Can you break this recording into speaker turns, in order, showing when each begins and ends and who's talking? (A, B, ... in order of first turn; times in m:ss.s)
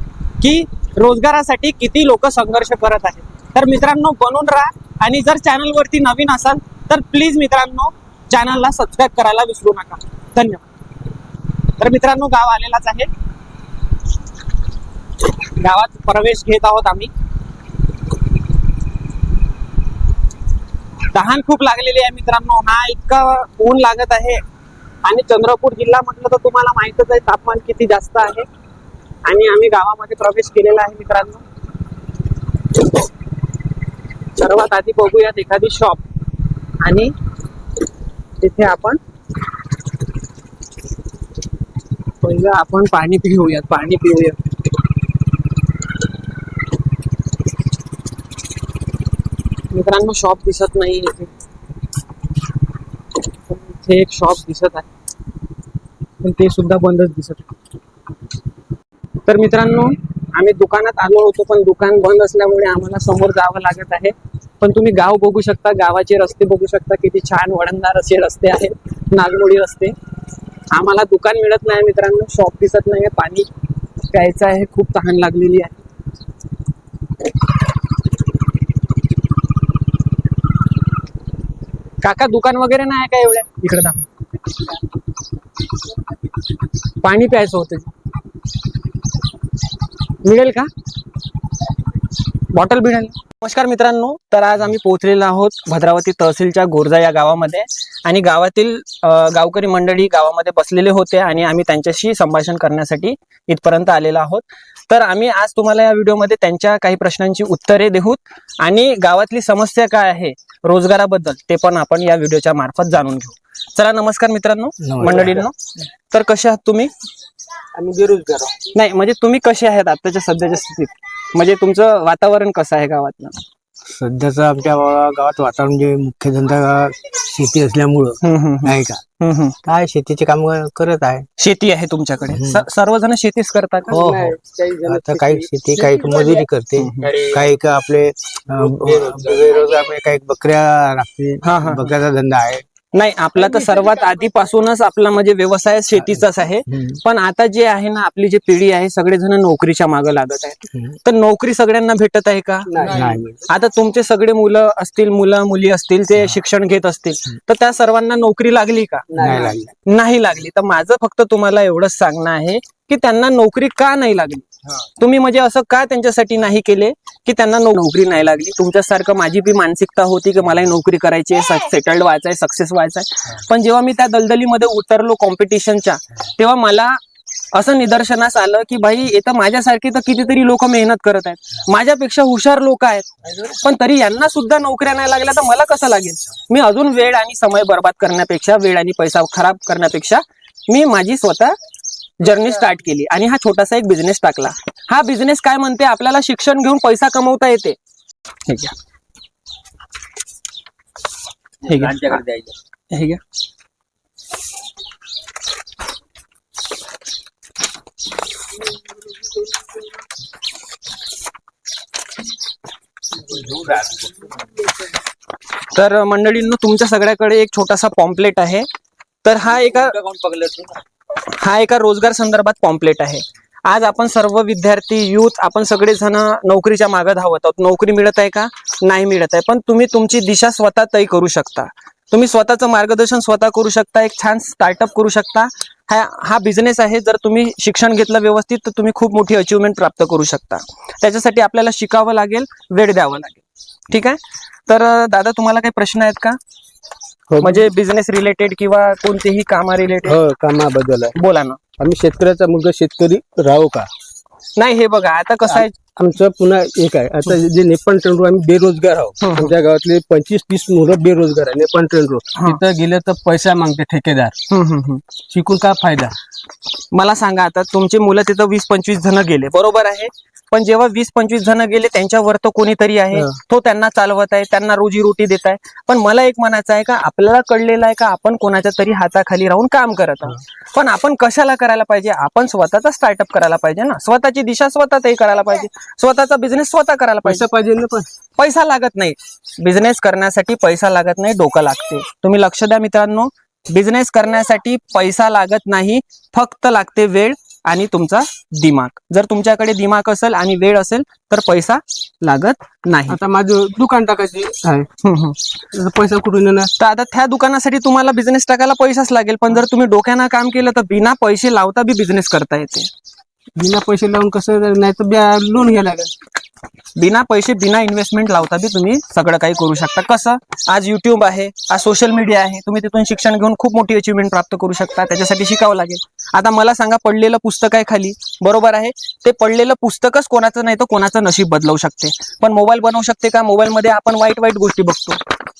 0:00.4-0:10.6 A
0:11.8-0:13.1 A
0:15.4-0:17.1 A
0:21.1-0:24.4 A
0:25.0-0:28.4 A
0:29.2-0:31.4 A
0:34.4-0:36.0 A
0:36.8-0:37.1 A
0:38.4-0:39.0 A
0:42.2-0:44.4 A
0:49.7-0:51.3 A
0:53.5-0:54.9 A
0:56.2-0:57.5 A
0:59.2-1:09.9 A
1:10.7-1:13.5 A
1:14.1-1:15.8 A
1:22.0-1:24.1 A
1:27.0-1:27.9 A
1:30.2-1:30.7 A
1:32.5-1:55.5 A
1:54.8-1:55.4 B
1:56.1-1:56.9 A
1:57.7-1:58.6 C
1:58.7-2:03.4 A
2:03.9-2:09.0 B
2:08.2-2:09.6 A
2:09.6-2:11.3 B
2:11.4-2:14.0 A
2:12.3-2:12.6 B
2:13.9-2:16.4 C
2:13.9-2:22.6 B
2:16.8-2:17.1 A
2:17.0-2:17.5 C
2:18.5-2:19.5 C
2:21.4-2:21.9 A
2:22.9-2:32.8 A
2:32.7-2:33.2 C
2:32.8-2:33.4 B
2:33.5-2:57.0 A
2:39.1-2:39.6 C
2:39.2-2:39.7 B
2:57.5-3:11.6 A
3:12.2-3:17.8 A
3:18.5-3:18.7 A
3:21.6-3:22.2 A
3:21.8-3:22.5 C
3:22.9-3:23.2 A
3:33.2-3:34.1 C
3:35.6-3:38.7 A
3:39.2-3:40.0 A
3:40.0-3:40.7 C
3:41.2-4:06.4 A
4:07.3-4:07.7 C
4:07.4-4:10.2 A
4:10.0-4:11.2 C
4:11.1-4:11.6 A
4:11.8-4:13.9 C
4:14.6-4:15.7 A
4:15.5-4:24.4 C
4:19.2-4:19.5 A
4:22.4-4:22.6 A
4:24.5-4:25.0 A
4:25.3-4:26.1 C
4:26.9-4:47.4 A
4:47.2-4:48.0 C
4:48.4-5:03.2 A
5:03.1-5:04.9 C
5:05.0-5:05.4 A
5:05.7-5:06.7 C
5:06.8-5:12.9 A
5:13.6-5:16.1 C
5:17.0-5:35.2 A